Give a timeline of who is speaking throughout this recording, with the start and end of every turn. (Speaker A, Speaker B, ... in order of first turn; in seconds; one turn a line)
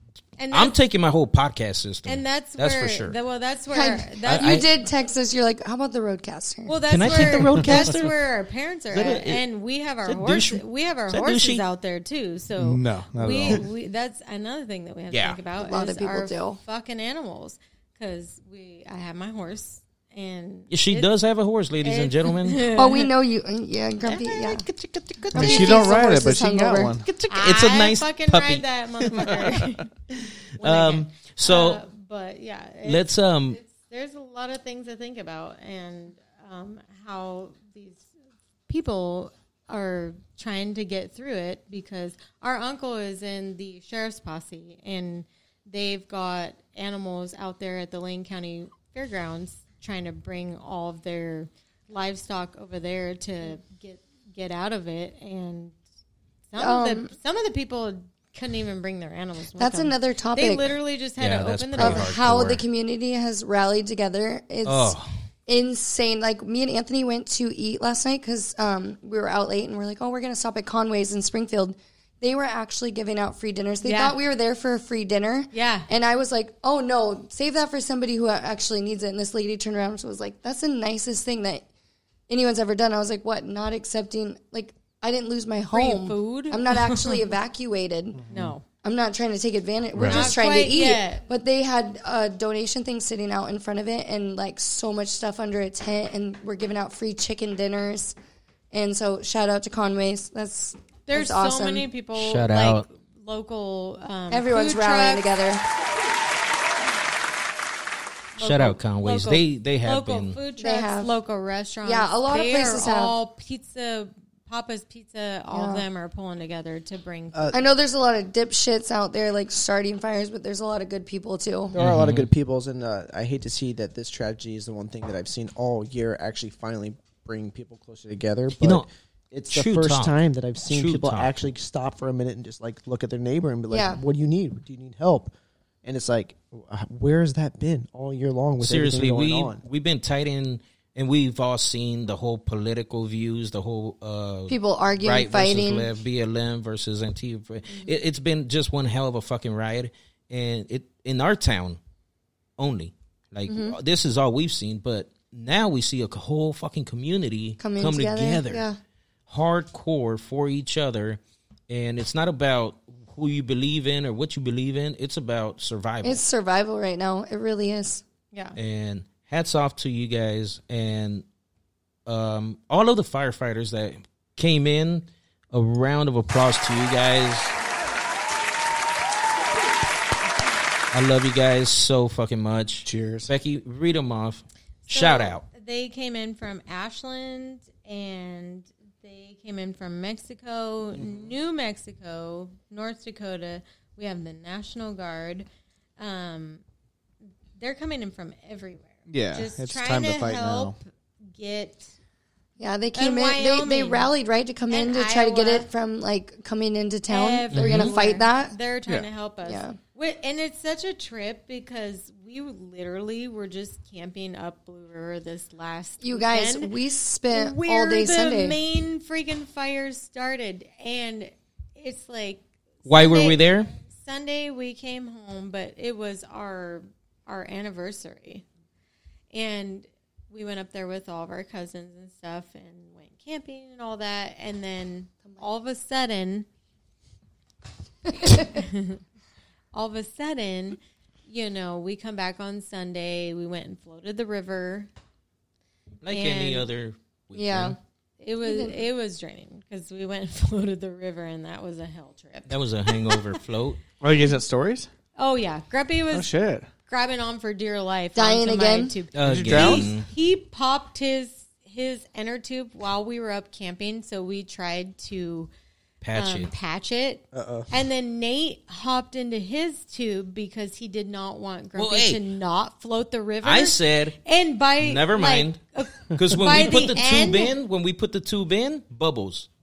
Speaker A: 0.4-0.8
Speaker B: 0.5-3.1
Speaker A: 2.1-4.6
Speaker C: 3.7-6.8
Speaker B: 4.3-4.7
Speaker A: 6.7-21.1
Speaker B: 6.9-8.2
Speaker B: 8.9-9.4
Speaker B: 10.1-11.7
Speaker D: 12.6-13.7
Speaker B: 15.1-15.4
Speaker C: 15.6-16.6
Speaker B: 20.7-22.7
Speaker A: 21.8-23.1
Speaker C: 22.8-24.7
Speaker B: 24.0-26.0
Speaker C: 25.3-26.9
Speaker D: 25.4-27.1
Speaker B: 27.1-28.7
Speaker A: 27.3-29.9
Speaker A: 30.6-38.1
Speaker B: 30.6-31.8
Speaker B: 32.8-33.6
Speaker A: 38.7-55.8
Speaker A: 56.5-62.1
Speaker C: 56.6-57.1
Speaker C: 59.6-60.8
Speaker B: 61.2-62.6
Speaker C: 61.8-65.0
Speaker B: 64.7-65.1
Speaker C: 65.5-81.7
Speaker A: 73.8-74.2
Speaker A: 75.5-75.9
Speaker C: 82.3-88.2
Speaker A: 85.7-87.3
Speaker D: 88.2-88.5
Speaker A: 88.3-88.7
Speaker C: 88.8-98.2
Speaker B: 90.0-90.3
Speaker A: 90.0-91.2
Speaker C: 98.7-101.9
Speaker A: 101.1-105.3
Speaker B: 102.2-102.9
Speaker C: 104.3-105.6
Speaker A: 108.4-117.5
Speaker B: 108.4-110.4
Speaker C: 110.6-111.1
Speaker C: 111.8-113.2
Speaker C: 115.5-115.9
Speaker C: 117.5-121.8
Speaker E: 121.7-135.3
Speaker B: 121.8-122.3
Speaker B: 128.6-128.9
Speaker B: 129.5-131.4
Speaker C: 133.7-134.0
Speaker E: 135.8-139.6
Speaker B: 138.6-151.8
Speaker C: 144.5-145.9
Speaker B: 152.6-158.7
Speaker C: 153.5-153.8
Speaker C: 157.6-158.8
Speaker B: 159.3-166.2
Speaker C: 166.0-168.0
Speaker A: 168.3-168.6
Speaker B: 168.6-171.2
Speaker B: 172.1-177.6
Speaker B: 180.9-185.4
Speaker D: 182.8-183.3
Speaker A: 184.9-195.5
Speaker D: 191.0-191.3
Speaker A: 196.0-196.6
Speaker A: 197.6-201.9
Speaker D: 199.1-200.8
Speaker C: 202.6-208.6
Speaker A: 202.9-204.1
Speaker A: 204.7-205.7
Speaker A: 207.1-216.7
Speaker B: 207.5-207.9
Speaker C: 209.4-209.8
Speaker C: 216.0-218.6
Speaker A: 217.3-228.4
Speaker B: 222.9-223.7
Speaker A: 229.3-236.5
Speaker C: 238.1-238.6
Speaker A: 238.5-239.0
Speaker A: 239.7-244.9
Speaker B: 246.0-247.8
Speaker A: 246.1-246.7
Speaker C: 247.3-247.8
Speaker A: 248.2-253.2
Speaker C: 248.4-248.8
Speaker B: 252.5-253.8
Speaker D: 254.0-254.9
Speaker A: 255.2-256.3
Speaker D: 256.1-256.7
Speaker A: 256.9-265.5
Speaker C: 258.1-258.9
Speaker B: 259.1-260.1
Speaker D: 259.2-259.9
Speaker B: 266.0-266.5
Speaker A: 266.1-277.5
Speaker E: 267.3-267.7
Speaker B: 271.8-272.2
Speaker B: 273.4-274.2
Speaker B: 274.8-275.6
Speaker B: 276.1-279.5